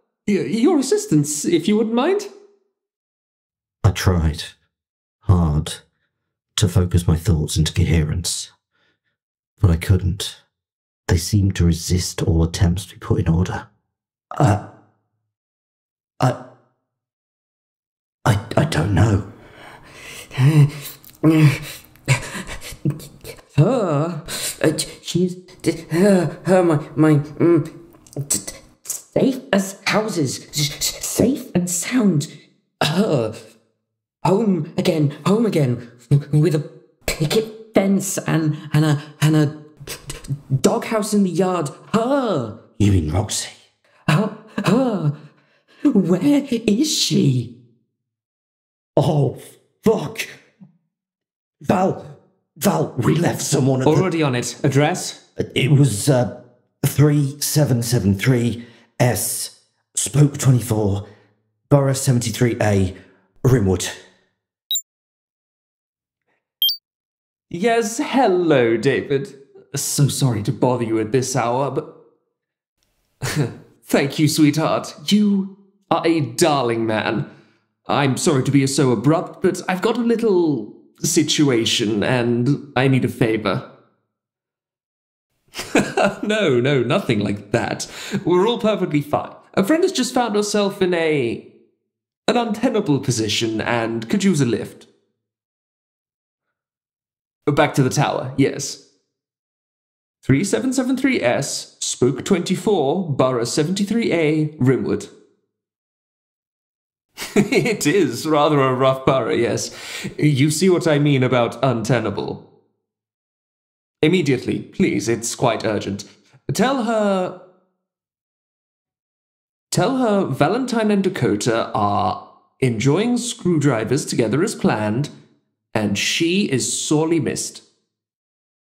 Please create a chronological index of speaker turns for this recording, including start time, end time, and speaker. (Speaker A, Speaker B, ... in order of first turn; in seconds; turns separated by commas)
Speaker A: 0.2-2.3, Speaker B: 3.8-4.5, Speaker B: 5.2-5.8, Speaker B: 6.5-8.5, Speaker B: 9.6-10.4, Speaker B: 11.1-13.7, Speaker B: 14.3-14.6, Speaker B: 18.2-19.3, Speaker C: 20.3-20.7, Speaker C: 21.2-21.6, Speaker C: 23.5-27.7, Speaker C: 28.3-32.3, Speaker C: 32.8-33.4, Speaker C: 34.2-39.6, Speaker C: 40.6-42.6, Speaker B: 42.8-43.5, Speaker C: 44.1-45.1, Speaker C: 45.9-47.5, Speaker B: 49.0-50.3, Speaker B: 51.6-52.1, Speaker B: 52.6-54.1, Speaker A: 53.8-55.2, Speaker B: 55.4-61.0, Speaker B: 61.7-64.0, Speaker A: 67.5-71.9, Speaker A: 73.2-77.3, Speaker A: 77.8-83.7, Speaker A: 85.6-91.4, Speaker A: 92.3-94.8, Speaker A: 97.5-98.8, Speaker A: 100.2-105.1, Speaker A: 107.2-112.4, Speaker A: 114.0-117.3, Speaker A: 119.7-125.1, Speaker A: 125.7-127.6